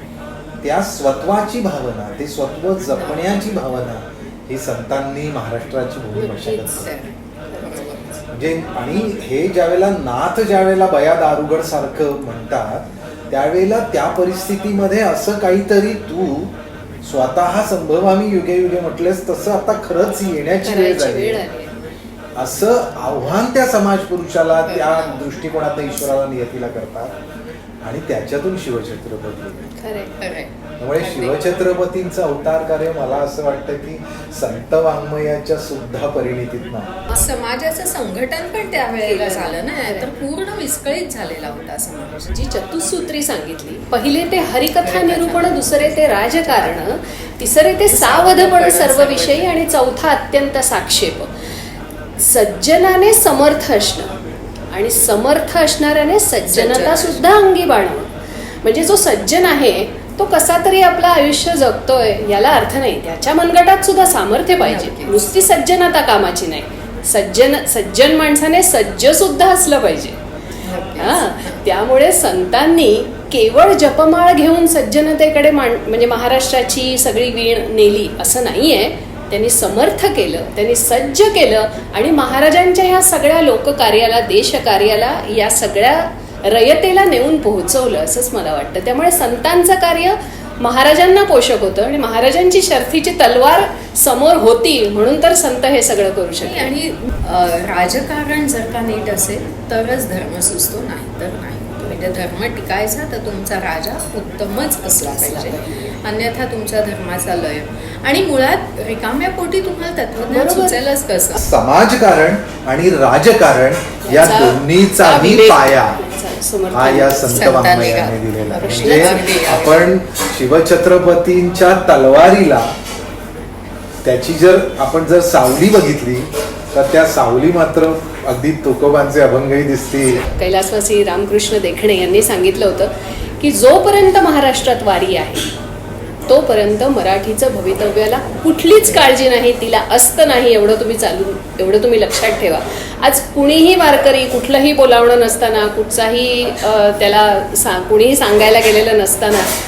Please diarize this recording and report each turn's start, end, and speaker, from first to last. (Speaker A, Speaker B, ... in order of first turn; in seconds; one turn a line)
Speaker A: 0.6-6.9
Speaker B: 3.0-3.5
Speaker B: 6.2-8.3
Speaker C: 7.5-7.9
Speaker A: 8.3-21.5
Speaker C: 20.6-21.7
Speaker A: 22.4-27.2
Speaker B: 24.7-25.2
Speaker A: 27.8-29.8
Speaker C: 29.8-30.2
Speaker B: 30.2-31.5
Speaker A: 30.8-37.0
Speaker B: 37.1-42.3
Speaker C: 38.9-40.1
Speaker C: 42.3-51.3
Speaker B: 44.8-46.9
Speaker B: 47.9-49.5
Speaker C: 52.2-54.1
Speaker C: 54.7-70.2
Speaker B: 56.5-57.3
Speaker B: 64.6-65.3
Speaker B: 70.6-71.6
Speaker C: 71.0-96.7
Speaker B: 96.4-111.4
Speaker C: 105.1-106.0
Speaker C: 110.3-110.8
Speaker A: 111.4-116.0
Speaker C: 114.0-117.7
Speaker A: 116.7-122.7
Speaker B: 117.4-119.9
Speaker C: 118.6-119.2
Speaker A: 124.0-130.2
Speaker C: 130.2-135.5
Speaker C: 136.3-149.5